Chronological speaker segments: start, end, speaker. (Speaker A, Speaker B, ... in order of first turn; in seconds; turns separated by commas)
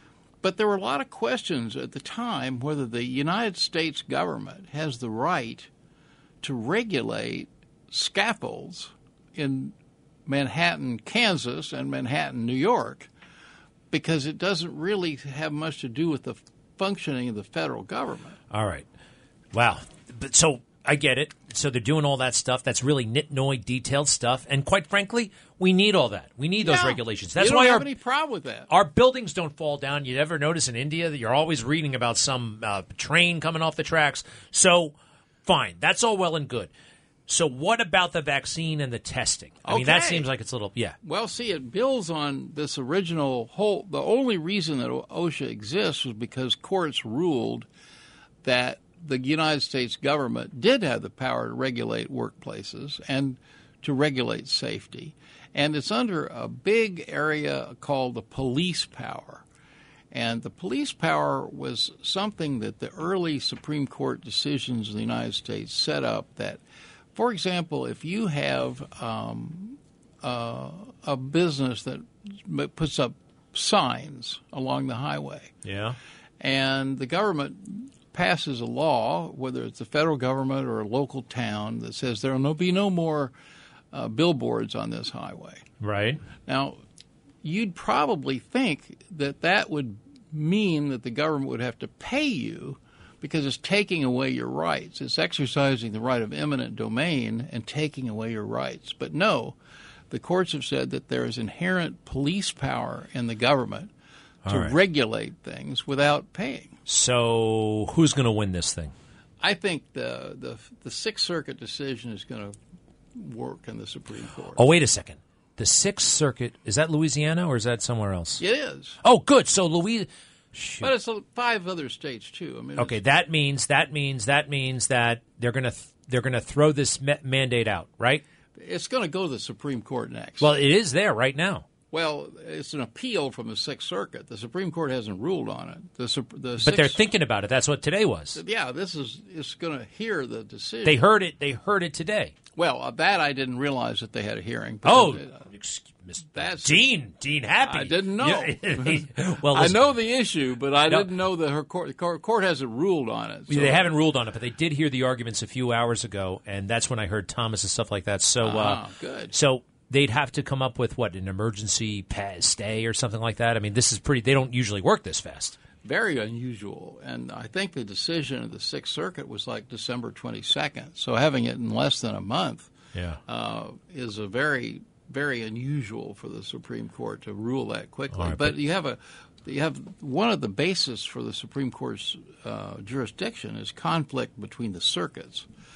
Speaker A: 0.4-5.7, Speaker A: 6.4-9.8, Speaker A: 10.3-13.1, Speaker A: 13.9-18.4, Speaker B: 18.5-18.9, Speaker B: 19.5-27.9, Speaker A: 26.6-28.7, Speaker B: 28.7-35.0, Speaker B: 35.5-36.7, Speaker B: 37.3-41.0, Speaker A: 39.6-40.3, Speaker A: 41.0-47.7, Speaker A: 48.4-59.5, Speaker A: 60.1-66.6, Speaker A: 67.2-75.5, Speaker B: 75.7-76.0, Speaker A: 76.4-83.3, Speaker A: 83.9-85.7, Speaker B: 85.8-86.2, Speaker A: 86.5-86.8, Speaker A: 87.4-99.6, Speaker A: 100.1-103.9, Speaker B: 104.5-104.8, Speaker A: 104.5-106.8, Speaker B: 106.9-108.9, Speaker A: 109.4-112.6, Speaker A: 113.2-114.7, Speaker B: 114.5-118.5, Speaker A: 118.4-119.0, Speaker B: 119.0-120.9, Speaker A: 120.8-123.0, Speaker B: 122.8-128.2, Speaker A: 128.6-130.5, Speaker B: 130.4-131.7, Speaker A: 131.9-137.0, Speaker B: 136.6-138.4, Speaker A: 138.3-141.0, Speaker B: 140.8-142.3, Speaker A: 142.6-145.5, Speaker B: 144.8-149.8, Speaker A: 146.3-146.9, Speaker A: 147.6-153.9, Speaker B: 153.5-165.6, Speaker A: 158.4-159.3, Speaker A: 165.8-172.7, Speaker B: 172.9-173.2, Speaker A: 173.3-185.5, Speaker B: 178.1-178.6